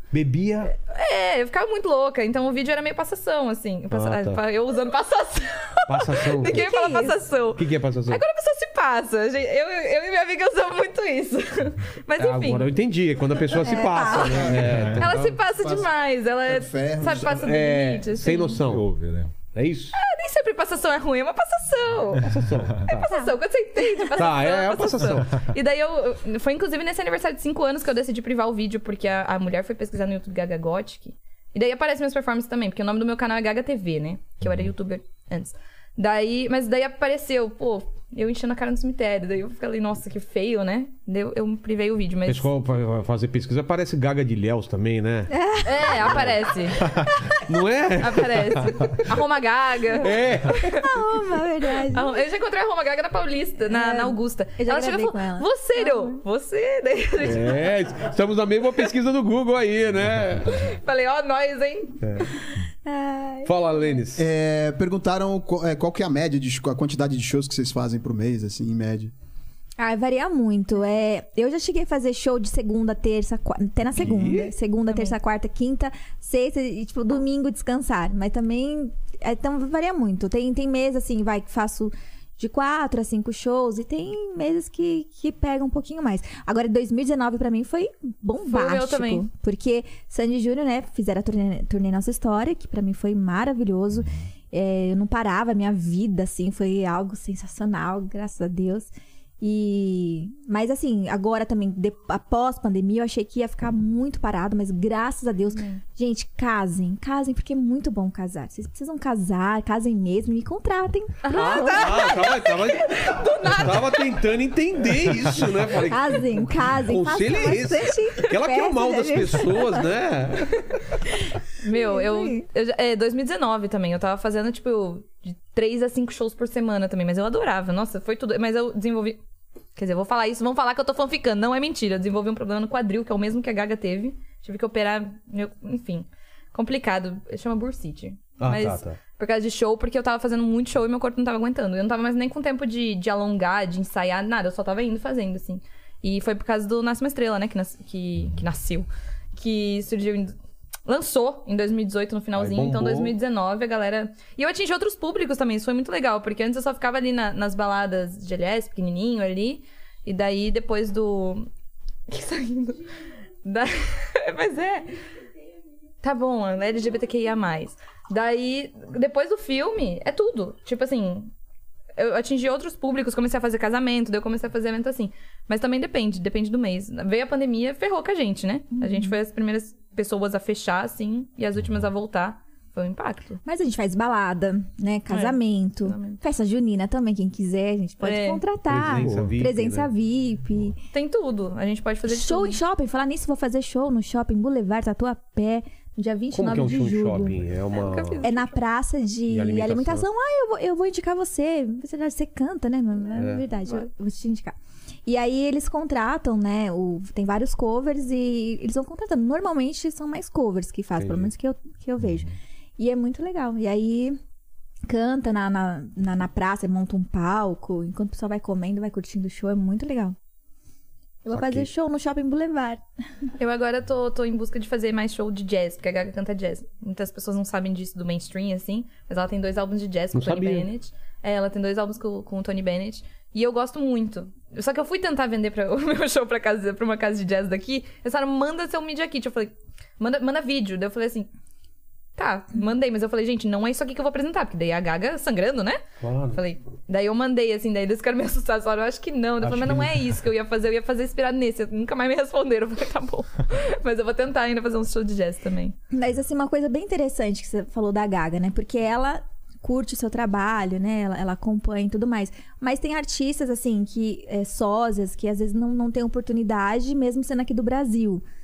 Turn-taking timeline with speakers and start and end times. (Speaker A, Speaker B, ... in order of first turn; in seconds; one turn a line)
Speaker A: 0.1-0.7
Speaker B: 0.7-12.7
Speaker A: 3.9-4.4
Speaker A: 5.9-6.6
Speaker C: 6.4-7.2
Speaker A: 7.5-8.2
Speaker A: 12.2-15.3
Speaker C: 13.5-14.6
Speaker D: 14.4-15.9
Speaker E: 14.6-15.0
Speaker B: 14.9-18.6
Speaker D: 16.4-17.4
Speaker A: 17.1-18.9
Speaker E: 18.6-19.3
Speaker A: 19.5-19.9
Speaker B: 19.9-22.3
Speaker A: 22.2-23.1
Speaker E: 22.3-22.9
Speaker B: 22.9-42.5
Speaker C: 23.1-24.1
Speaker A: 24.2-25.4
Speaker E: 34.4-34.7
Speaker A: 42.3-45.3
Speaker C: 45.3-46.0
Speaker B: 45.6-46.8
Speaker A: 45.9-46.3
Speaker C: 47.1-47.4
Speaker A: 47.5-49.0
Speaker B: 48.0-50.9
Speaker A: 50.0-50.8
Speaker C: 50.8-52.2
Speaker B: 51.9-57.7
Speaker C: 53.6-56.2
Speaker A: 57.2-60.6
Speaker E: 60.3-60.7
Speaker B: 60.5-62.2
Speaker A: 62.0-62.3
Speaker C: 62.9-63.5
Speaker A: 63.5-64.2
Speaker D: 64.1-69.1
Speaker C: 69.8-98.9
Speaker A: 73.9-74.5
Speaker B: 74.9-75.2
Speaker B: 88.5-89.3
Speaker E: 93.9-94.3
Speaker C: 99.4-112.3
Speaker B: 105.5-105.8
Speaker B: 111.2-114.1
Speaker A: 111.3-120.6
Speaker C: 115.9-119.8
Speaker B: 121.6-129.2
Speaker C: 121.6-122.4
Speaker B: 129.8-150.3
Speaker A: 138.4-139.0
Speaker B: 150.9-161.5
Speaker A: 152.3-153.1
Speaker B: 162.1-162.8
Speaker B: 163.4-164.9
Speaker B: 166.0-171.3
Speaker B: 172.0-183.4
Speaker C: 178.7-179.1
Speaker E: 181.6-181.9
Speaker C: 183.4-190.8
Speaker B: 185.1-186.2
Speaker B: 188.0-188.4
Speaker A: 188.7-189.9
Speaker E: 188.7-189.5
Speaker B: 190.9-192.6
Speaker C: 192.1-197.4
Speaker A: 196.3-198.2
Speaker B: 197.7-198.6
Speaker C: 198.2-204.5
Speaker A: 199.3-200.1
Speaker A: 203.1-203.4
Speaker C: 205.1-214.2
Speaker A: 210.9-211.3
Speaker E: 212.0-212.3
Speaker C: 214.9-220.2
Speaker C: 221.2-222.8
Speaker A: 221.3-221.7
Speaker B: 223.4-241.3
Speaker A: 230.1-230.7
Speaker B: 242.2-255.7
Speaker A: 246.0-246.4
Speaker A: 249.4-250.1
Speaker C: 255.9-268.2